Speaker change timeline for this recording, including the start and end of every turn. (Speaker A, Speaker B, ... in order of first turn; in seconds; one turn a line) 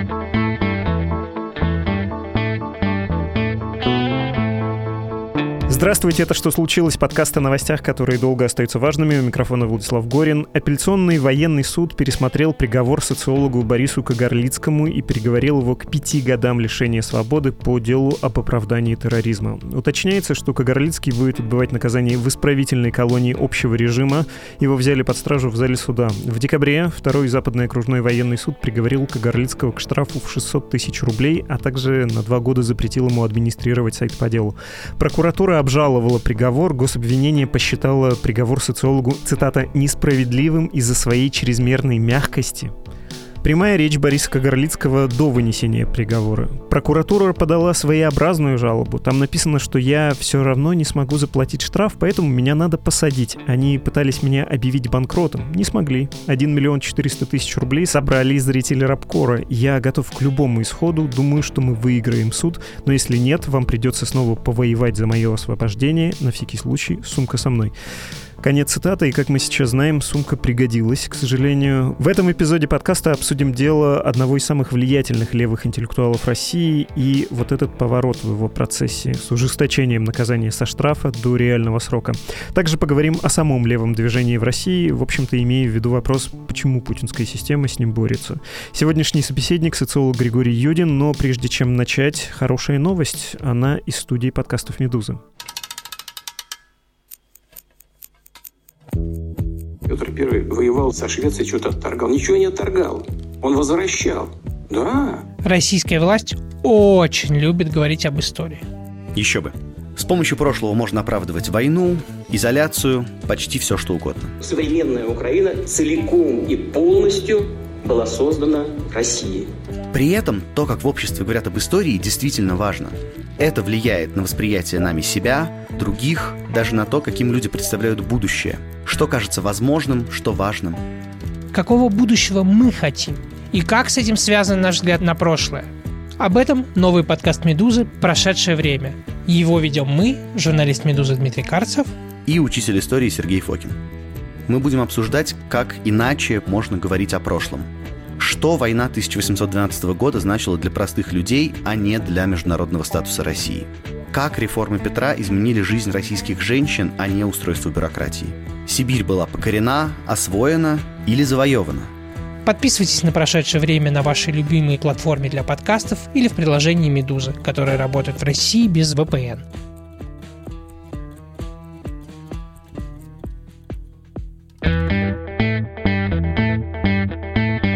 Speaker A: 5.7-42.7
Speaker A: 43.4-67.7
Speaker A: 68.4-95.2
Speaker B: 99.9-105.2
Speaker C: 105.4-108.6
Speaker D: 109.1-114.3
Speaker B: 114.4-119.5
Speaker D: 119.9-130.8
Speaker C: 131.5-141.9
Speaker D: 142.3-143.8
Speaker D: 144.5-161.9
Speaker C: 162.4-169.4